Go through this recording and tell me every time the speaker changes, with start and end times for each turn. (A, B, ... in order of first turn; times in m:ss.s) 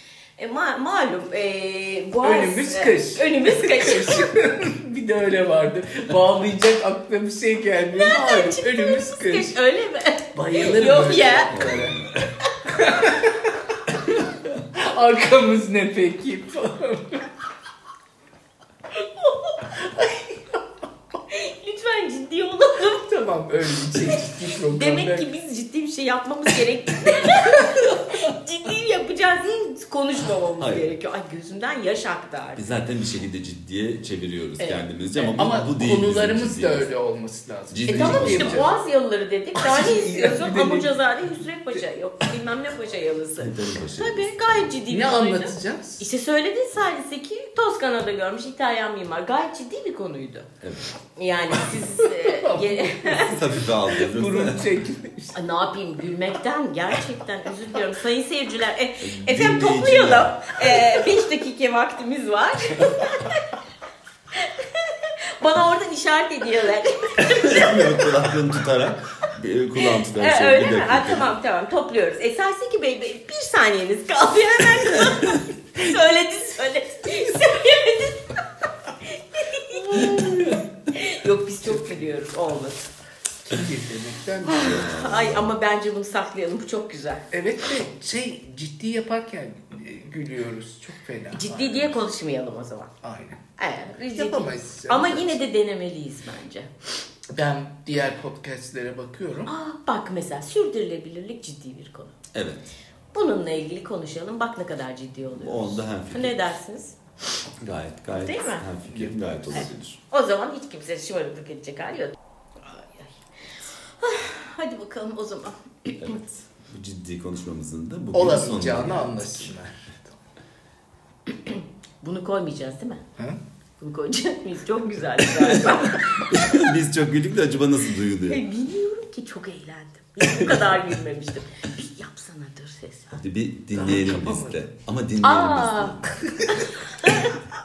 0:00.4-0:04.3 A
0:02.2-0:09.6 B
0:07.9-0:11.6 A
0:10.3-0:12.1 B
0:11.5-0:12.1 C
0:12.6-0:14.2 B
0:14.7-0:17.2 B
0:18.9-0:19.7 A
0:19.8-0:20.2 B
0:21.3-0:23.1 A
0:23.0-0:25.3 B
0:23.9-0:32.6 A
0:30.6-0:30.9 C
0:32.6-0:36.9 C
0:34.6-0:35.4 A
0:35.4-0:38.7 B
0:37.7-0:38.6 C
0:37.9-0:50.5 A
0:39.6-0:40.9 B
0:43.4-0:44.4 C
0:44.9-0:46.0 B
0:50.6-0:51.0 C
0:51.2-0:53.4 A
0:51.6-0:55.4 B
0:53.1-0:54.7 C
0:55.3-1:03.4 A
0:59.0-1:00.7 C
1:04.3-1:07.9 A
1:07.2-1:11.3 C
1:09.8-1:18.4 A
1:19.0-1:22.9 A
1:19.7-1:20.6 B
1:21.6-1:22.2 B
1:23.4-1:24.9 B
1:24.4-1:27.3 A
1:24.6-1:25.5 C
1:27.3-1:32.0 B
1:31.3-1:32.9 A
1:33.0-1:33.4 B
1:33.6-1:36.7 A
1:34.1-1:35.4 B
1:37.3-1:39.5 B
1:39.5-1:42.1 A
1:42.3-1:42.6 C
1:43.1-1:46.9 A
1:45.3-1:46.4 C
1:47.6-1:50.0 C
1:48.1-1:48.7 A
1:48.9-1:49.7 B
1:49.5-1:53.1 A
1:54.0-1:56.2 A
1:56.0-1:59.5 C
1:58.1-2:00.2 B
2:01.3-2:03.0 A
2:03.8-2:06.4 A
2:05.4-2:08.4 C
2:08.2-2:13.2 A
2:13.1-2:16.2 C
2:13.7-2:14.6 B
2:15.2-2:17.3 A
2:16.4-2:16.6 B